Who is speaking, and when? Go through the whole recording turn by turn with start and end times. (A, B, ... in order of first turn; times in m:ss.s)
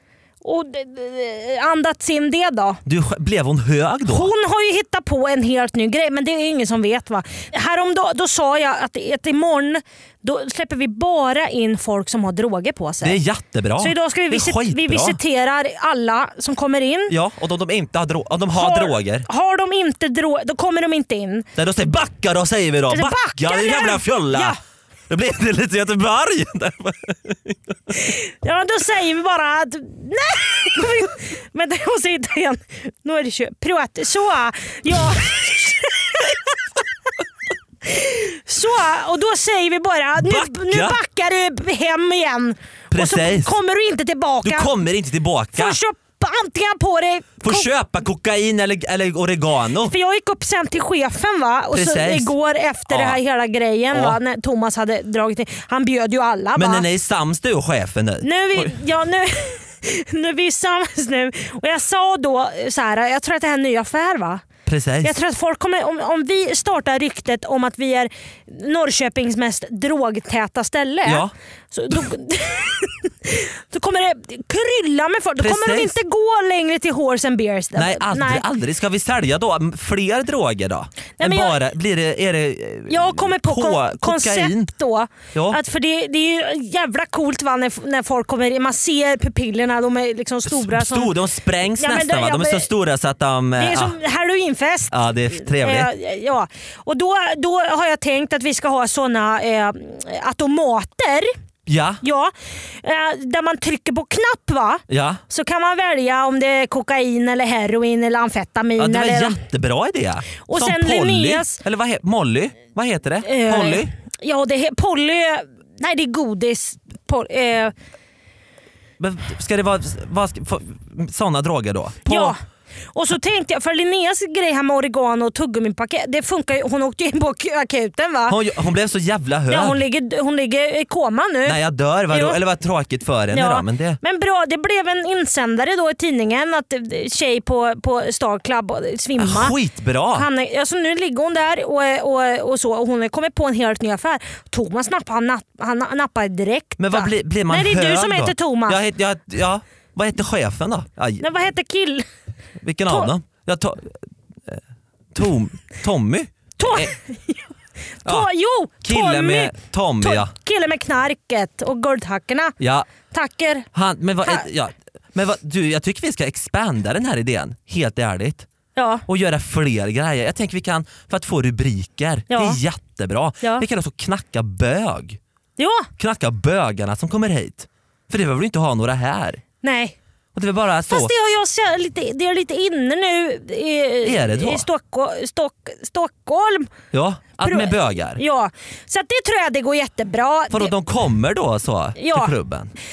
0:00.4-0:02.8 A
0:02.8-0:04.3 B
0:04.1-0:13.2 A
0:13.0-0:15.2 B
0:13.8-0:17.1 A
0:17.1-0:19.3 B
0:18.5-0:21.5 A
0:21.6-0:24.6 B
0:22.9-0:24.6 A
0:25.1-0:27.9 B
0:27.9-0:36.3 A
0:37.9-0:44.7 A
0:40.2-0:41.0 B
0:42.9-0:43.6 B
0:44.4-0:45.8 B
0:45.5-0:47.7 A
0:47.4-0:49.9 B
0:49.8-0:56.8 A
0:51.7-0:52.3 B
0:52.9-0:53.2 B
0:53.9-0:54.2 B
0:56.6-0:58.7 B
0:58.2-1:04.4 A
1:04.6-1:05.1 B
1:05.0-1:18.4 A
1:11.0-1:11.3 B
1:15.4-1:16.0 B
1:17.8-1:24.7 B
1:21.2-1:21.6 A
1:22.9-1:31.1 A
1:25.3-1:25.6 B
1:30.5-1:34.0 B
1:31.8-1:32.7 A
1:33.6-1:41.3 A
1:34.9-1:35.9 B
1:41.7-1:42.0 B
1:42.0-1:49.4 A
1:44.9-1:45.2 B
1:48.8-1:53.9 B
1:50.5-1:51.6 A
1:53.2-1:57.7 A
1:59.0-2:02.4 B
2:02.1-2:02.4 A
2:03.0-2:08.4 A
2:08.3-2:09.8 B
2:09.5-2:11.6 A
2:11.4-2:14.0 B
2:12.1-2:12.4 A
2:13.3-2:19.5 A
2:19.2-2:20.3 B
2:20.1-2:28.8 A
2:26.8-2:31.2 B
2:31.2-2:32.1 A
2:32.6-2:34.6 B
2:35.1-2:36.9 B
2:36.6-2:37.5 A
2:38.0-2:42.5 A
2:38.8-2:40.3 B
2:42.6-2:42.9 B
2:43.1-2:43.7 A
2:43.7-2:48.5 B
2:48.8-2:49.0 A
2:49.1-2:55.2 B
2:52.3-2:52.6 A
2:55.6-2:55.9 A
2:56.0-2:59.4 B
2:59.6-3:00.0 A
3:00.4-3:01.1 B
3:00.9-3:06.7 A
3:04.0-3:04.6 B
3:06.9-3:08.2 B
3:07.4-3:10.7 A
3:10.5-3:12.7 B
3:12.0-3:12.3 A